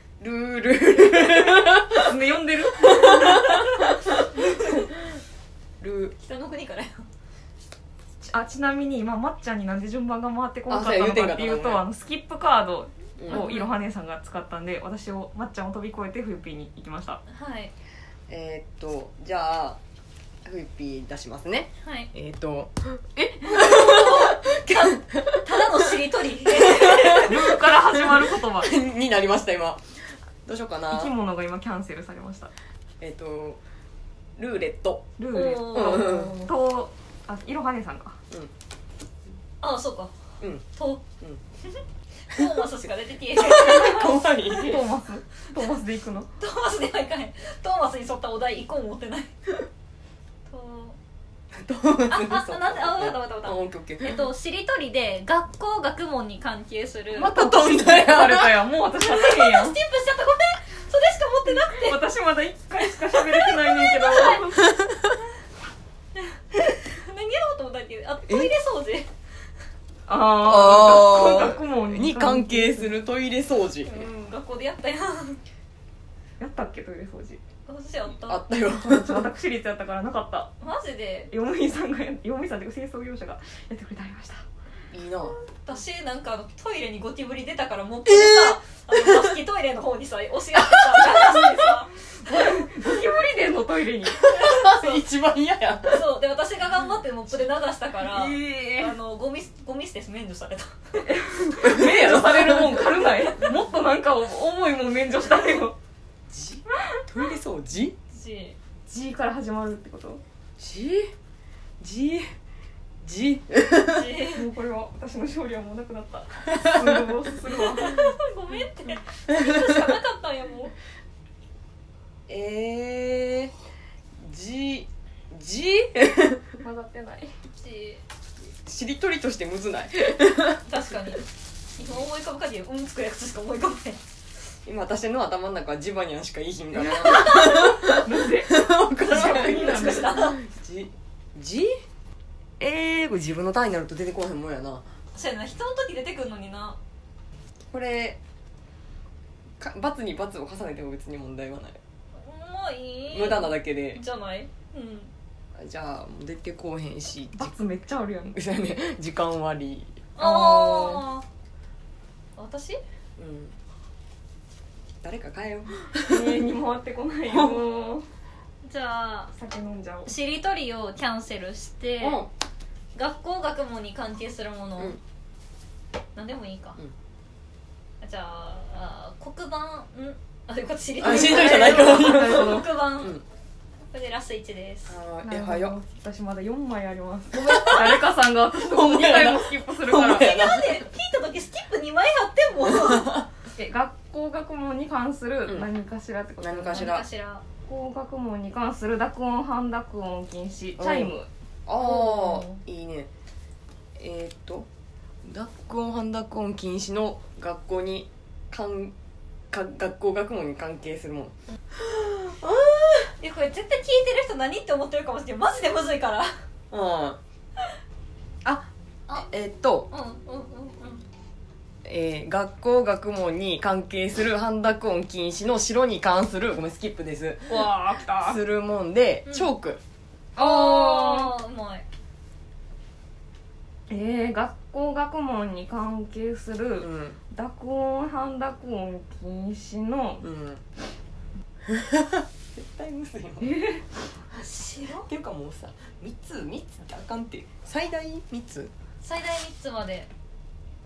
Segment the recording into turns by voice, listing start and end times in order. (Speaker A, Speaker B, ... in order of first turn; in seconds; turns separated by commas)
Speaker A: 0.2-2.1, Speaker B: 1.9-3.5, Speaker A: 2.9-3.6, Speaker C: 3.2-4.9, Speaker A: 5.8-6.2, Speaker C: 6.2-7.0, Speaker B: 8.2-17.2, Speaker A: 10.7-11.8, Speaker A: 13.2-13.5, Speaker C: 13.3-13.7, Speaker C: 17.3-17.7, Speaker A: 18.3-19.8, Speaker A: 20.4-25.7, Speaker C: 21.8-22.1, Speaker C: 23.4-27.5, Speaker A: 26.5-31.1, Speaker B: 27.1-28.7, Speaker B: 30.9-32.5, Speaker A: 33.0-33.6, Speaker A: 34.4-35.1, Speaker B: 35.2-38.2, Speaker C: 35.3-36.2, Speaker A: 35.7-36.4, Speaker C: 39.6-40.1, Speaker C: 40.7-41.0, Speaker C: 41.6-44.2, Speaker A: 43.4-44.8, Speaker B: 44.6-46.3, Speaker C: 46.4-49.3, Speaker C: 50.5-51.0, Speaker A: 51.5-54.3, Speaker C: 52.1-57.3, Speaker A: 57.1-58.6, Speaker B: 57.3-59.8, Speaker C: 59.0-62.0, Speaker B: 61.6-64.6, Speaker C: 62.8-64.5, Speaker C: 66.5-69.1, Speaker A: 68.3-68.5, Speaker B: 70.1-72.9, Speaker A: 70.4-74.0, Speaker C: 73.8-75.4, Speaker B: 76.4-77.4, Speaker C: 77.7-78.4, Speaker A: 78.3-79.3, Speaker B: 78.8-80.5, Speaker C: 80.6-81.3, Speaker B: 81.3-84.4, Speaker A: 84.9-85.4, Speaker C: 85.2-92.4, Speaker A: 88.1-89.3, Speaker A: 90.6-91.6, Speaker B: 92.3-94.2, Speaker A: 94.0-96.0, Speaker C: 94.3-95.0, Speaker C: 95.9-101.1, Speaker B: 98.1-98.9, Speaker B: 101.0-105.8, Speaker A: 101.6-102.9, Speaker C: 103.0-103.4, Speaker A: 106.3-108.0, Speaker C: 108.1-108.6, Speaker B: 108.9-110.2, Speaker A: 110.6-111.1, Speaker A: 111.8-112.3, Speaker A: 113.0-114.1, Speaker C: 113.8-114.5, Speaker B: 114.3-118.1, Speaker C: 117.6-120.7, Speaker A: 122.3-123.5, Speaker A: 124.2-126.5, Speaker B: 126.6-127.3, Speaker C: 127.6-128.0, Speaker A: 128.6-131.0, Speaker C: 130.7-131.2, Speaker C: 131.8-134.0, Speaker A: 134.7-141.7, Speaker B: 136.8-140.1, Speaker C: 139.1-140.4, Speaker A: 142.6-144.8, Speaker C: 145.1-146.8, Speaker A: 147.7-148.2, Speaker A: 149.6-151.8, Speaker C: 152.1-155.1, Speaker A: 153.1-154.0, Speaker A: 155.6-157.6, Speaker B: 157.3-158.4, Speaker A: 158.3-161.0, Speaker C: 160.2-161.3, Speaker C: 162.4-162.8, Speaker A: 163.2-163.6, Speaker A: 165.0-166.4, Speaker B: 166.1-168.1, Speaker C: 168.6-169.3, Speaker B: 169.3-170.1, Speaker C: 170.1-172.2, Speaker A: 172.0-172.3, Speaker C: 172.9-175.0, Speaker C: 176.2-176.8, Speaker C: 178.0-183.2, Speaker A: 181.0-183.2, Speaker B: 181.1-182.7, Speaker C: 183.9-185.0, Speaker A: 184.9-185.8, Speaker B: 185.2-190.3, Speaker C: 187.3-187.9, Speaker A: 187.3-188.0, Speaker A: 188.5-190.8, Speaker C: 190.1-193.2, Speaker A: 192.8-193.2, Speaker B: 193.6-197.0, Speaker A: 196.4-197.1, Speaker C: 196.7-197.4, Speaker B: 197.7-201.3, Speaker A: 200.8-203.1, Speaker C: 201.8-202.6, Speaker A: 204.0-204.7, Speaker A: 205.2-208.9, Speaker A: 209.5-213.1, Speaker C: 213.2-216.3, Speaker A: 216.7-217.2, Speaker A: 218.4-219.9, Speaker C: 219.9-221.1, Speaker A: 221.8-229.8, Speaker B: 227.5-228.4, Speaker C: 229.3-229.5, Speaker C: 230.4-231.9, Speaker B: 230.4-231.3, Speaker B: 233.9-240.2, Speaker A: 236.8-237.2, Speaker A: 240.2-240.6, Speaker A: 241.7-243.6, Speaker B: 243.4-243.8, Speaker C: 244.3-245.1, Speaker A: 245.1-248.7, Speaker C: 249.0-250.1